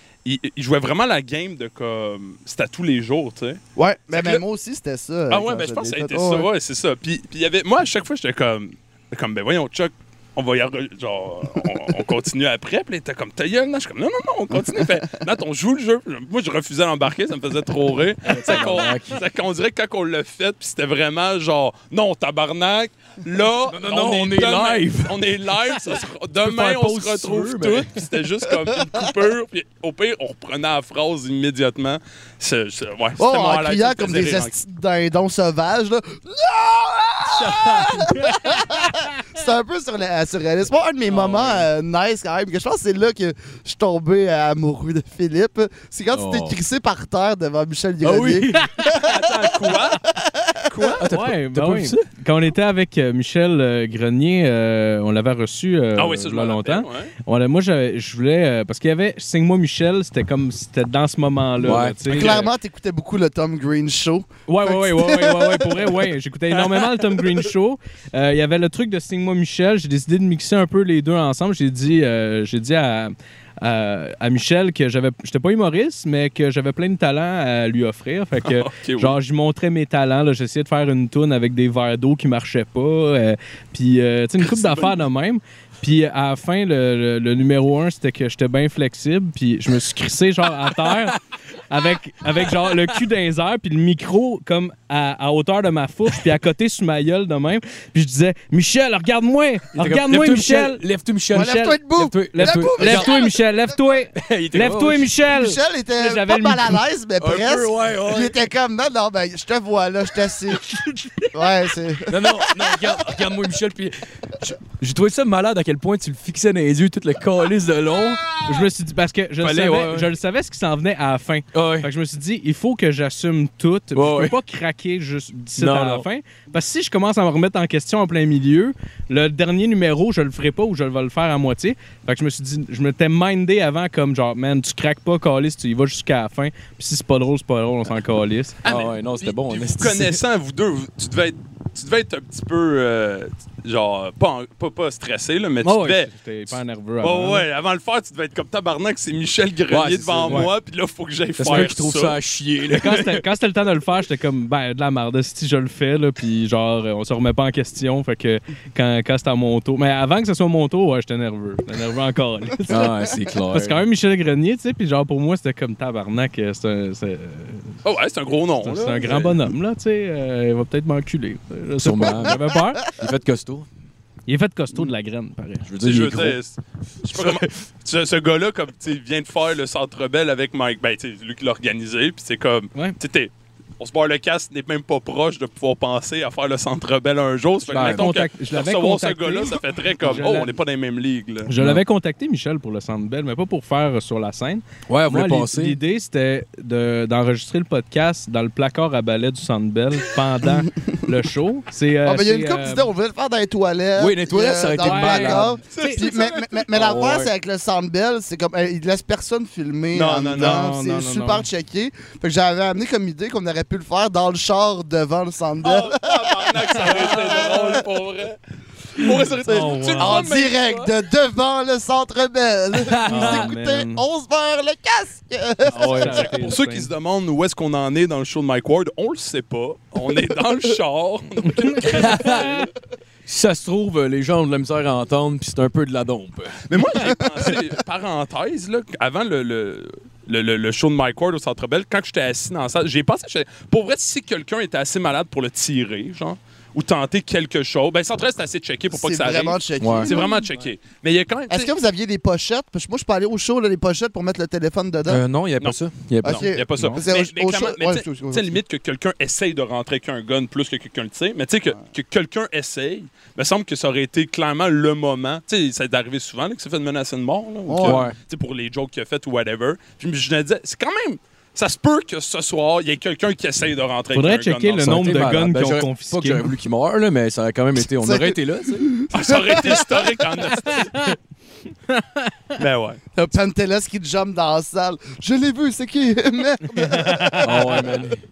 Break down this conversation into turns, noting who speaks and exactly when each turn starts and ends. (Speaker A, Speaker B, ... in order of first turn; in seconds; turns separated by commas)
Speaker A: 0.2-4.4, Speaker B: 3.8-6.5, Speaker A: 5.3-34.5, Speaker C: 18.2-19.2, Speaker C: 23.7-25.2, Speaker C: 26.4-28.0, Speaker B: 33.2-50.5, Speaker D: 41.1-41.6, Speaker C: 46.1-46.6, Speaker C: 48.0-48.6, Speaker A: 48.8-50.0, Speaker A: 50.7-51.0, Speaker C: 51.0-52.1, Speaker D: 51.1-62.5, Speaker A: 56.0-57.1, Speaker C: 61.6-62.4, Speaker B: 62.1-65.8, Speaker D: 64.5-91.2, Speaker A: 78.4-79.2, Speaker A: 84.5-85.0, Speaker C: 90.8-91.2, Speaker D: 91.7-100.8, Speaker C: 99.7-103.1, Speaker B: 101.3-103.3, Speaker D: 101.3-106.8, Speaker C: 104.2-105.1, Speaker B: 105.3-110.6, Speaker C: 107.2-108.4, Speaker D: 110.7-111.3, Speaker B: 111.3-112.5, Speaker C: 112.1-118.2, Speaker D: 118.5-138.6, Speaker C: 119.4-120.1, Speaker C: 121.5-121.9, Speaker C: 123.9-124.4, Speaker C: 125.6-126.1, Speaker C: 138.6-140.2, Speaker A: 138.6-152.2, Speaker D: 145.6-147.4, Speaker C: 149.7-150.5, Speaker C: 151.4-153.2, Speaker D: 152.8-167.8, Speaker C: 162.7-163.8, Speaker A: 167.8-169.4, Speaker D: 168.6-172.8, Speaker C: 171.8-173.7, Speaker D: 174.3-175.7, Speaker C: 175.7-176.4, Speaker A: 175.8-191.5, Speaker C: 177.1-177.6, Speaker C: 187.7-188.1, Speaker D: 187.7-190.5, Speaker D: 191.5-202.9, Speaker C: 194.9-195.8, Speaker B: 202.0-217.8, Speaker C: 204.0-205.6, Speaker D: 204.8-206.0, Speaker A: 205.7-206.7, Speaker C: 206.7-207.3, Speaker A: 209.9-210.7, Speaker D: 210.4-211.5, Speaker A: 215.6-218.4, Speaker A: 218.9-220.9, Speaker B: 219.0-226.3, Speaker D: 219.4-220.2, Speaker C: 222.8-223.5, Speaker D: 223.1-224.1, Speaker D: 225.7-226.9, Speaker A: 226.4-232.6, Speaker D: 231.4-232.5, Speaker C: 231.9-232.6, Speaker C: 233.3-236.6, Speaker A: 236.7-251.7, Speaker B: 236.9-237.2, Speaker B: 248.9-250.5, Speaker C: 249.8-250.1, Speaker B: 251.5-255.2, Speaker C: 255.1-256.5, Speaker A: 255.6-275.1, Speaker B: 256.2-258.6, Speaker B: 267.7-268.1, Speaker C: 267.8-268.2, Speaker D: 274.1-276.5, Speaker C: 274.8-278.9, Speaker B: 277.8-280.1, Speaker A: 279.1-280.9, Speaker D: 280.6-281.1, Speaker D: 281.9-282.3, Speaker A: 282.6-283.0, Speaker B: 283.1-287.8, Speaker D: 286.8-287.8, Speaker C: 287.4-288.2